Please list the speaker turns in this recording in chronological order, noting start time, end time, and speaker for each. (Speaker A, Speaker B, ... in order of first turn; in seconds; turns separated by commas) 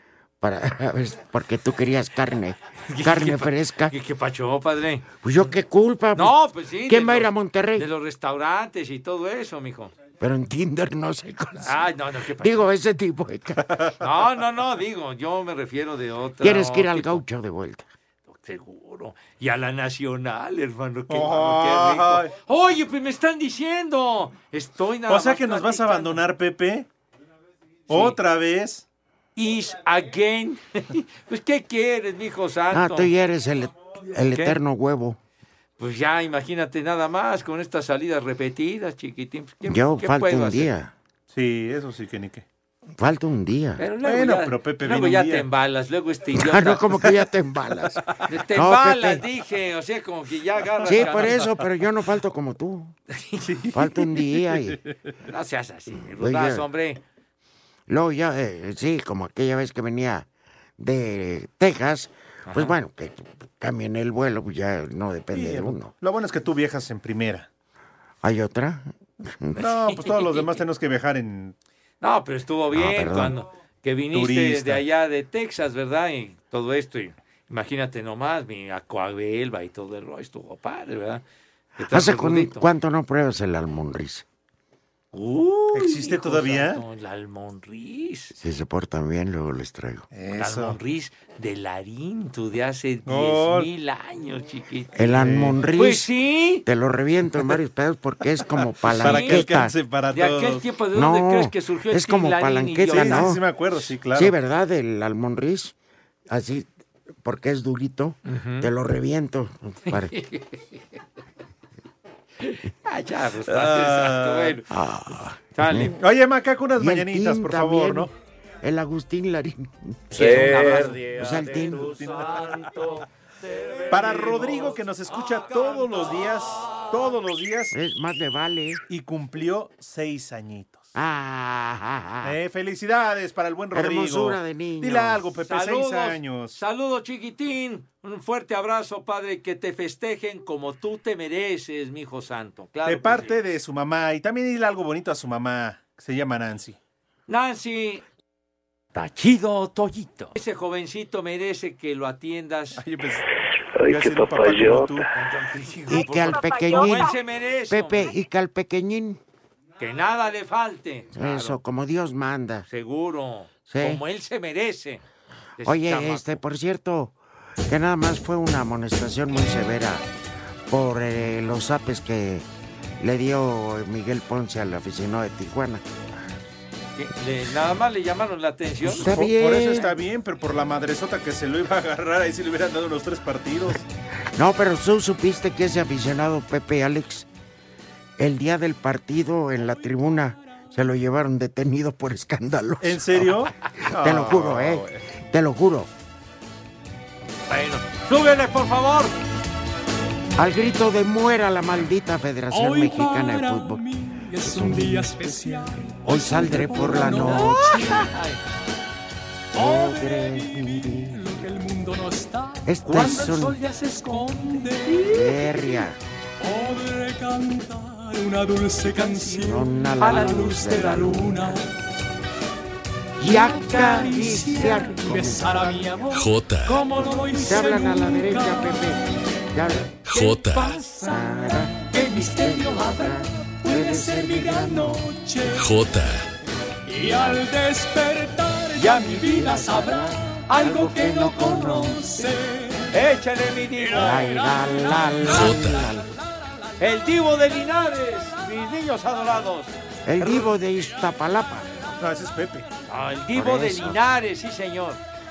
Speaker A: 0.4-4.0, Speaker B: 2.9-5.2, Speaker A: 5.2-7.9, Speaker B: 6.2-9.9, Speaker A: 10.2-11.8, Speaker B: 11.6-12.7, Speaker A: 12.4-13.8, Speaker B: 14.0-17.2, Speaker A: 16.4-17.9, Speaker B: 18.3-26.2, Speaker C: 21.1-22.3, Speaker C: 25.1-26.9, Speaker B: 27.9-28.2, Speaker C: 27.9-28.9, Speaker B: 29.4-33.1, Speaker A: 32.7-35.2, Speaker B: 34.3-34.6, Speaker B: 35.8-40.7, Speaker A: 39.6-40.9, Speaker C: 41.3-42.5, Speaker A: 43.0-43.8, Speaker B: 43.8-46.8, Speaker C: 44.0-45.5, Speaker A: 46.4-49.2, Speaker B: 48.3-51.5, Speaker C: 50.8-51.5, Speaker A: 50.9-53.0, Speaker B: 53.1-53.5, Speaker C: 53.5-55.0, Speaker A: 53.7-54.8, Speaker B: 55.2-57.0, Speaker A: 56.1-56.6, Speaker A: 57.9-65.9, Speaker B: 62.5-62.7, Speaker C: 65.3-67.5, Speaker A: 68.2-69.7, Speaker C: 69.6-71.6, Speaker B: 69.6-70.5, Speaker B: 72.0-81.2, Speaker A: 72.7-73.4, Speaker C: 74.1-74.8, Speaker B: 81.8-82.7, Speaker A: 81.8-84.3, Speaker B: 85.1-88.3, Speaker C: 85.7-86.8, Speaker A: 88.4-90.1, Speaker C: 90.1-90.8, Speaker B: 90.4-96.7, Speaker C: 93.1-93.7, Speaker A: 95.0-96.1, Speaker C: 95.2-95.6, Speaker A: 96.6-99.8, Speaker B: 98.8-99.5, Speaker C: 98.9-100.7, Speaker B: 100.1-103.4, Speaker A: 100.9-103.4, Speaker C: 102.9-104.4, Speaker A: 104.1-105.8, Speaker A: 106.3-106.7, Speaker A: 107.2-110.2, Speaker B: 108.3-108.7, Speaker B: 109.9-111.0, Speaker B: 112.4-114.7, Speaker C: 113.5-114.6, Speaker A: 114.7-116.0, Speaker B: 115.5-116.0, Speaker C: 116.0-118.1, Speaker A: 116.8-118.1, Speaker A: 118.6-122.1, Speaker B: 120.1-121.1, Speaker C: 120.2-121.1, Speaker C: 121.6-122.6, Speaker C: 123.9-127.7, Speaker A: 127.7-128.8, Speaker C: 128.9-130.9, Speaker A: 130.9-132.4, Speaker C: 132.2-136.6, Speaker A: 133.7-135.2, Speaker B: 135.5-143.4, Speaker C: 142.8-146.8, Speaker B: 147.3-148.0, Speaker B: 148.9-152.8, Speaker C: 152.8-153.3, Speaker C: 153.9-155.1, Speaker B: 155.2-158.1, Speaker A: 155.9-159.2, Speaker B: 159.8-161.6, Speaker A: 161.1-162.7, Speaker B: 162.7-165.0, Speaker A: 163.7-164.0, Speaker B: 165.6-166.4, Speaker A: 165.6-167.2, Speaker A: 167.7-170.1, Speaker A: 170.7-172.5, Speaker A: 173.0-175.8, Speaker B: 177.0-179.2, Speaker A: 178.8-179.9, Speaker C: 179.0-183.9, Speaker A: 184.3-187.3, Speaker A: 188.2-195.9, Speaker C: 192.8-195.1, Speaker B: 197.5-199.2, Speaker A: 200.4-205.4, Speaker D: 202.5-208.1, Speaker A: 206.0-207.9, Speaker B: 206.6-208.4, Speaker A: 209.5-211.4, Speaker D: 209.6-215.4, Speaker A: 212.7-213.6, Speaker B: 212.9-215.1, Speaker A: 214.9-216.0, Speaker D: 216.4-221.6, Speaker B: 218.8-219.5, Speaker A: 219.3-221.4, Speaker B: 220.0-221.6, Speaker A: 223.2-226.0, Speaker D: 223.3-229.0, Speaker B: 223.6-224.3, Speaker B: 226.7-227.3, Speaker A: 227.3-230.0, Speaker D: 230.1-235.9, Speaker B: 230.3-231.3, Speaker A: 230.8-235.1, Speaker D: 236.9-242.9, Speaker A: 236.9-237.5, Speaker A: 238.8-242.1, Speaker B: 238.8-239.7, Speaker B: 240.5-241.8, Speaker B: 242.9-244.4, Speaker A: 243.9-246.1, Speaker B: 246.8-249.8, Speaker A: 250.1-251.9, Speaker C: 251.9-252.7, Speaker B: 252.9-255.0, Speaker A: 253.3-254.0